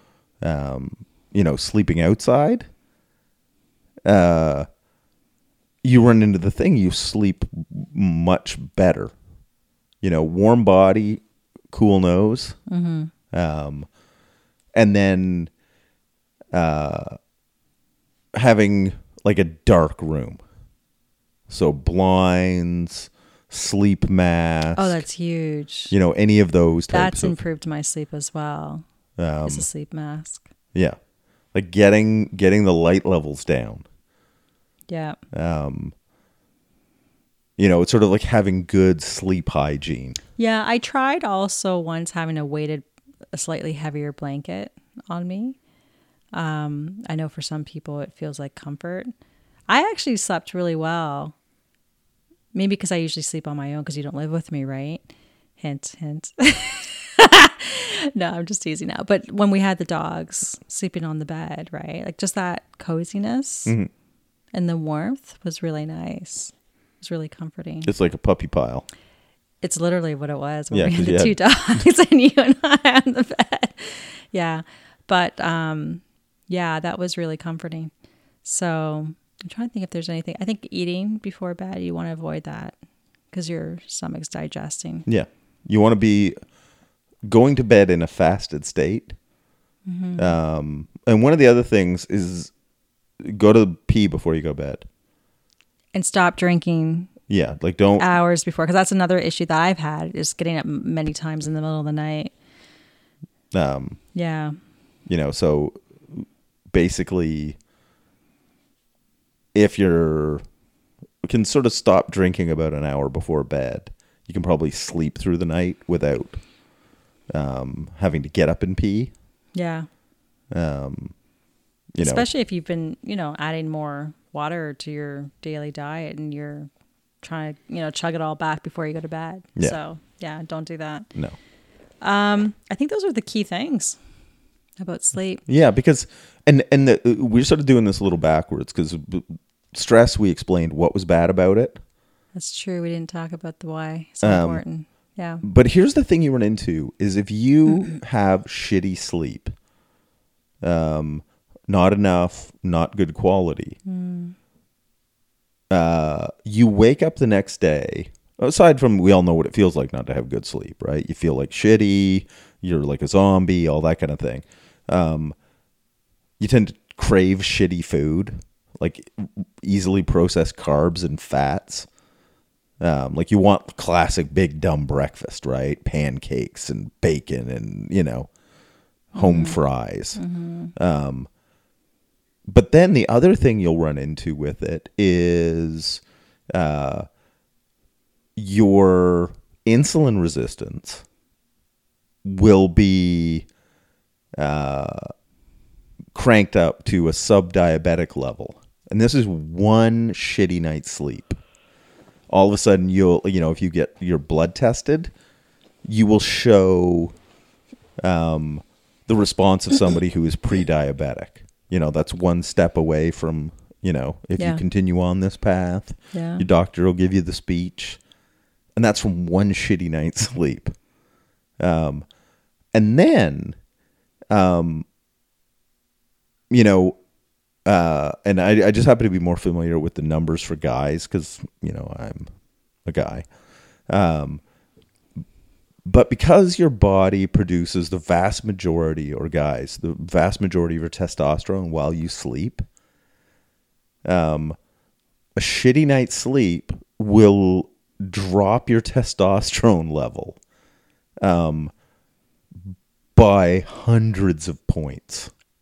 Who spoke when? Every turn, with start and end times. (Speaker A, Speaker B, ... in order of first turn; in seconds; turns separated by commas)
Speaker A: 0.4-2.7, Speaker A: 4.1-4.7, Speaker A: 5.8-9.1, Speaker A: 10.0-12.6, Speaker B: 12.7-13.1, Speaker A: 13.3-13.9, Speaker A: 14.7-15.5, Speaker A: 16.5-17.2, Speaker A: 18.3-20.4, Speaker A: 21.5-25.0, Speaker B: 24.8-25.9, Speaker A: 25.9-27.4, Speaker B: 26.9-28.8, Speaker A: 29.2-29.7, Speaker B: 29.4-30.4, Speaker A: 31.5-33.9, Speaker B: 34.9-35.2, Speaker A: 35.3-35.9, Speaker A: 37.6-40.2, Speaker B: 40.4-45.6, Speaker B: 46.3-49.1, Speaker B: 49.7-51.3, Speaker B: 52.5-55.0, Speaker B: 55.6-63.7, Speaker B: 64.5-67.9, Speaker A: 67.8-68.8, Speaker B: 69.6-77.9, Speaker A: 70.7-71.3, Speaker B: 78.4-82.8, Speaker B: 83.3-85.1, Speaker A: 85.1-86.4, Speaker A: 87.3-89.1, Speaker B: 89.9-90.3, Speaker A: 90.2-92.5, Speaker A: 93.2-94.9, Speaker B: 95.9-97.1, Speaker A: 97.3-98.1, Speaker B: 98.0-102.3, Speaker A: 103.5-104.0, Speaker B: 104.1-104.6, Speaker A: 105.1-107.6, Speaker A: 109.5-110.4, Speaker A: 111.2-116.4, Speaker A: 117.3-119.1, Speaker B: 119.5-119.9, Speaker A: 120.5-121.1, Speaker A: 121.9-122.3, Speaker B: 122.0-126.7, Speaker B: 127.2-131.1, Speaker B: 132.0-134.0, Speaker B: 134.8-135.4, Speaker A: 135.5-141.8, Speaker B: 142.3-145.4, Speaker A: 144.2-144.6, Speaker A: 145.4-149.5, Speaker A: 150.6-153.8, Speaker B: 153.9-154.3, Speaker A: 155.7-165.3, Speaker A: 166.4-171.9, Speaker A: 172.8-178.3, Speaker A: 179.1-180.2, Speaker B: 179.2-179.6, Speaker B: 180.2-180.7, Speaker A: 180.8-181.3, Speaker A: 182.5-186.0, Speaker A: 186.5-187.1, Speaker A: 188.4-191.0, Speaker A: 192.2-193.4, Speaker A: 194.4-195.1, Speaker A: 196.1-201.4, Speaker A: 202.3-205.1, Speaker A: 205.8-207.1, Speaker A: 208.0-218.0, Speaker B: 214.4-214.6, Speaker B: 216.1-216.4, Speaker A: 218.7-220.7, Speaker A: 221.6-222.1, Speaker A: 222.7-223.6, Speaker A: 224.3-224.9, Speaker A: 226.5-226.9, Speaker A: 227.6-232.3, Speaker A: 232.8-233.2, Speaker A: 233.9-234.4, Speaker A: 235.8-242.6, Speaker A: 244.1-244.6, Speaker A: 245.4-250.4, Speaker A: 251.2-251.7, Speaker A: 252.7-255.3